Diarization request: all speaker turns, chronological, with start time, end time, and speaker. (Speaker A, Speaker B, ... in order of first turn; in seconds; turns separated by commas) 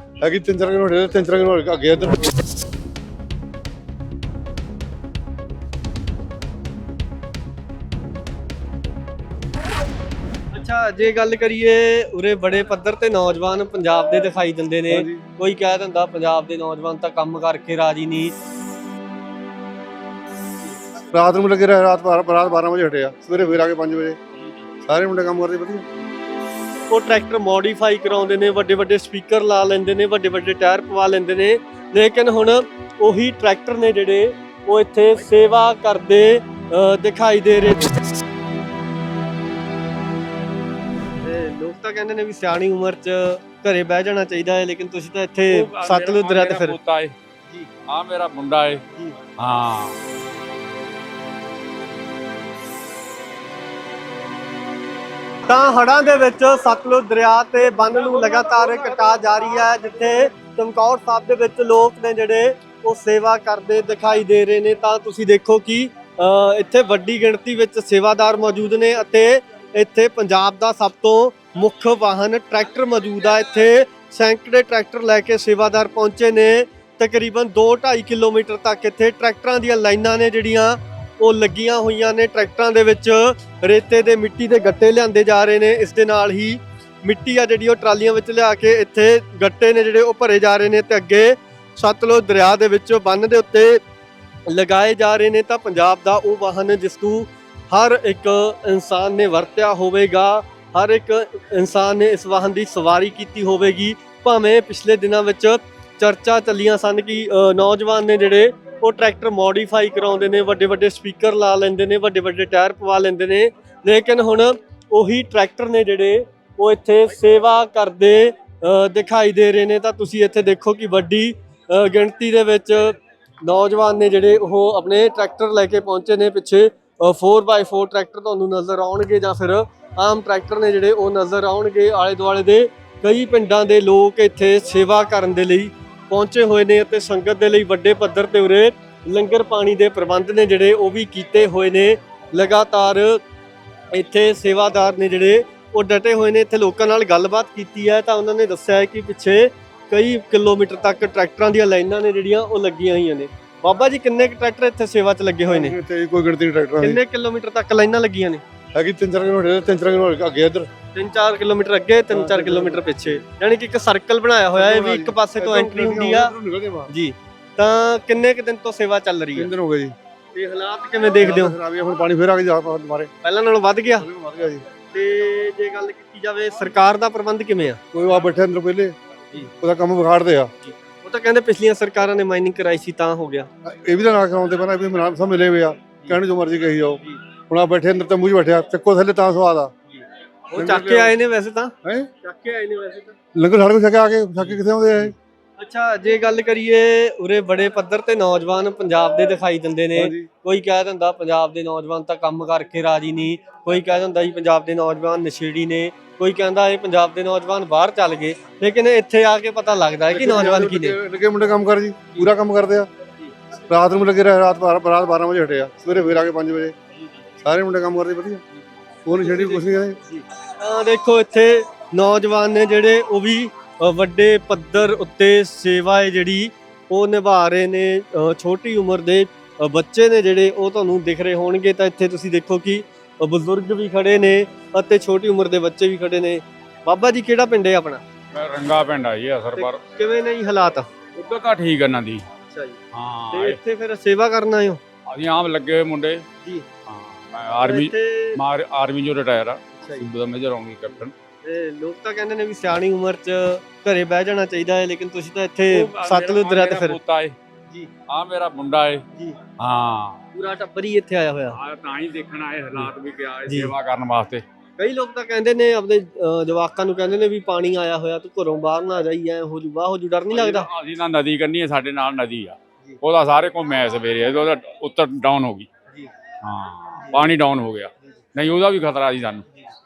Speaker A: 0.2-2.3, Speaker B: 10.5-18.3, Speaker A: 14.9-15.2, Speaker A: 21.1-24.2, Speaker A: 24.9-25.9, Speaker B: 26.9-38.0, Speaker B: 41.2-46.8, Speaker C: 45.5-47.1, Speaker C: 47.9-48.8, Speaker C: 49.4-50.0, Speaker B: 55.5-93.8, Speaker B: 94.5-143.2, Speaker B: 143.9-155.8, Speaker A: 155.5-157.0, Speaker B: 156.8-158.4, Speaker A: 158.8-160.7, Speaker B: 160.9-166.3, Speaker A: 162.1-163.2, Speaker A: 164.6-166.9, Speaker B: 166.9-169.5, Speaker A: 169.4-169.9, Speaker B: 170.3-171.6, Speaker A: 171.2-173.1, Speaker B: 173.2-174.1, Speaker A: 174.0-174.7, Speaker B: 174.9-177.8, Speaker A: 177.9-180.5, Speaker B: 180.6-183.5, Speaker A: 183.6-189.7, Speaker B: 189.9-193.2, Speaker A: 190.6-191.2, Speaker A: 191.8-192.1, Speaker A: 193.4-195.2, Speaker B: 195.6-211.0, Speaker A: 200.0-200.3, Speaker A: 210.1-212.9, Speaker A: 213.7-216.8, Speaker A: 217.4-218.4, Speaker A: 219.1-220.0, Speaker B: 219.2-238.0, Speaker C: 238.3-239.8, Speaker B: 239.6-240.9, Speaker C: 241.2-242.2, Speaker B: 242.5-242.8, Speaker C: 242.9-243.6, Speaker B: 243.3-244.8, Speaker C: 245.1-246.2, Speaker C: 246.9-251.1, Speaker B: 247.6-248.4, Speaker B: 249.8-250.1, Speaker B: 251.4-257.0, Speaker C: 255.7-257.4, Speaker C: 258.1-259.1, Speaker B: 259.1-259.4, Speaker C: 259.6-260.2, Speaker B: 260.4-261.6, Speaker C: 261.5-264.4, Speaker B: 263.5-263.7, Speaker B: 264.8-270.7, Speaker C: 270.3-275.7, Speaker C: 276.4-279.5, Speaker B: 277.0-277.3